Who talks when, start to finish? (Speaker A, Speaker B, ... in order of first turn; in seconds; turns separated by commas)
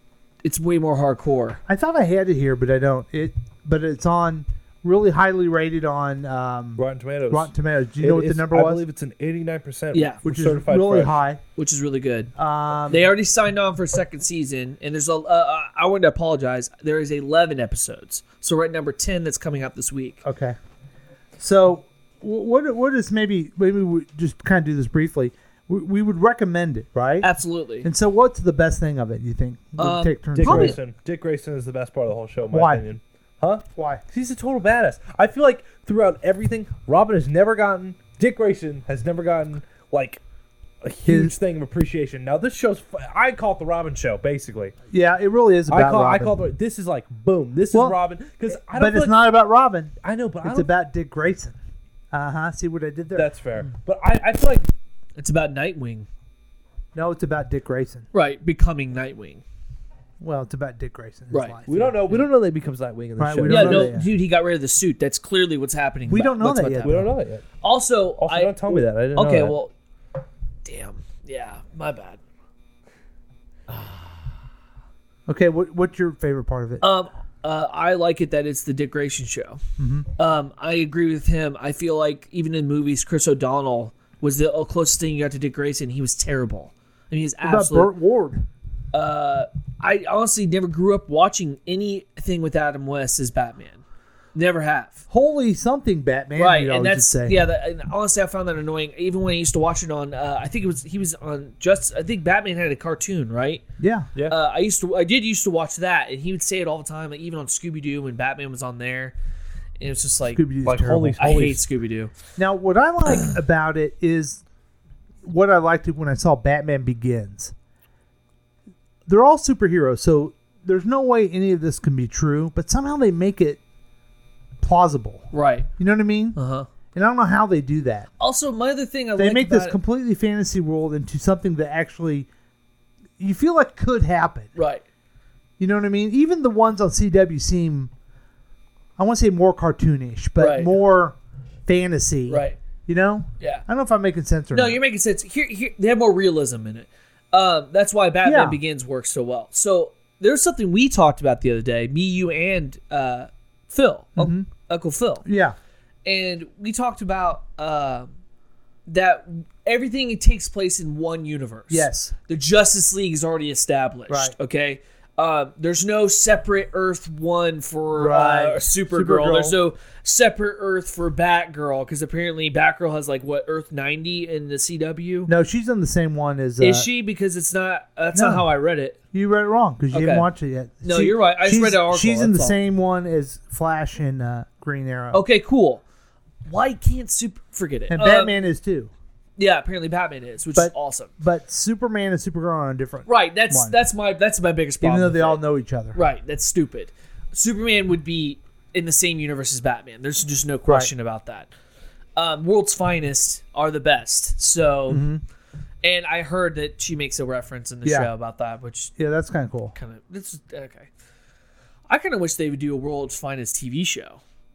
Speaker A: 0.4-1.6, Speaker B: 1.7-8.8, Speaker C: 6.8-11.2, Speaker A: 9.9-10.2, Speaker B: 10.2-11.4, Speaker A: 11.6-12.3, Speaker B: 12.3-13.1, Speaker A: 12.9-20.2, Speaker B: 20.2-20.6, Speaker B: 21.4-27.3, Speaker A: 27.2-27.9, Speaker B: 27.8-30.8, Speaker A: 29.8-30.8, Speaker C: 30.4-40.2, Speaker B: 32.5-32.9, Speaker B: 33.7-34.0, Speaker C: 40.8-44.8, Speaker B: 41.0-41.3, Speaker B: 44.9-46.4, Speaker C: 45.7-49.2, Speaker B: 47.7-48.0, Speaker B: 48.5-51.6, Speaker C: 50.0-50.7, Speaker B: 52.1-53.6, Speaker C: 53.1-54.6, Speaker A: 55.2-56.1, Speaker B: 56.9-58.0, Speaker A: 58.1-59.4, Speaker B: 60.2-62.0, Speaker A: 61.3-61.6, Speaker C: 61.7-64.0, Speaker B: 63.2-64.1, Speaker A: 63.5-67.0, Speaker B: 66.1-67.1, Speaker C: 66.8-67.4, Speaker A: 67.6-69.7, Speaker C: 68.2-69.5, Speaker A: 70.6-72.2, Speaker B: 75.3-76.8, Speaker A: 76.8-79.6, Speaker B: 79.8-80.1, Speaker A: 80.2-87.9, Speaker B: 87.4-88.5, Speaker A: 88.9-93.8, Speaker A: 94.3-95.0, Speaker B: 95.1-97.4, Speaker A: 96.3-103.6, Speaker B: 103.8-104.1, Speaker A: 104.2-109.1, Speaker A: 109.8-110.4, Speaker B: 110.3-111.2, Speaker C: 110.6-111.6, Speaker A: 111.2-112.1, Speaker B: 112.4-114.4, Speaker B: 115.2-117.5, Speaker B: 119.0-123.6, Speaker B: 124.6-126.4, Speaker A: 125.3-125.7, Speaker A: 126.3-126.7, Speaker B: 126.9-128.1, Speaker A: 128.2-129.8, Speaker B: 129.2-132.3, Speaker B: 133.2-134.5, Speaker A: 134.6-134.8, Speaker B: 135.6-137.9, Speaker B: 139.0-144.8, Speaker A: 140.4-140.7, Speaker A: 142.3-142.6, Speaker A: 143.4-143.6, Speaker A: 144.5-155.2, Speaker B: 148.2-148.6, Speaker B: 154.2-154.5, Speaker B: 155.2-155.6, Speaker A: 156.0-158.1, Speaker A: 158.9-175.3, Speaker B: 161.7-162.1, Speaker B: 164.1-164.3, Speaker B: 167.9-169.6, Speaker B: 175.2-176.9, Speaker A: 176.6-179.0, Speaker B: 178.1-178.5, Speaker B: 179.1-185.2, Speaker A: 179.9-180.3, Speaker A: 180.8-182.6, Speaker A: 185.1-185.8, Speaker A: 186.4-188.3, Speaker B: 187.9-188.9, Speaker A: 189.4-191.1, Speaker B: 190.5-193.8, Speaker A: 193.1-195.4, Speaker B: 194.8-196.0, Speaker A: 195.9-201.5, Speaker B: 200.7-200.9, Speaker A: 202.2-205.1, Speaker B: 204.9-205.2, Speaker A: 205.8-208.9, Speaker B: 207.8-208.1, Speaker B: 209.0-209.7, Speaker A: 209.7-210.9, Speaker A: 211.9-214.2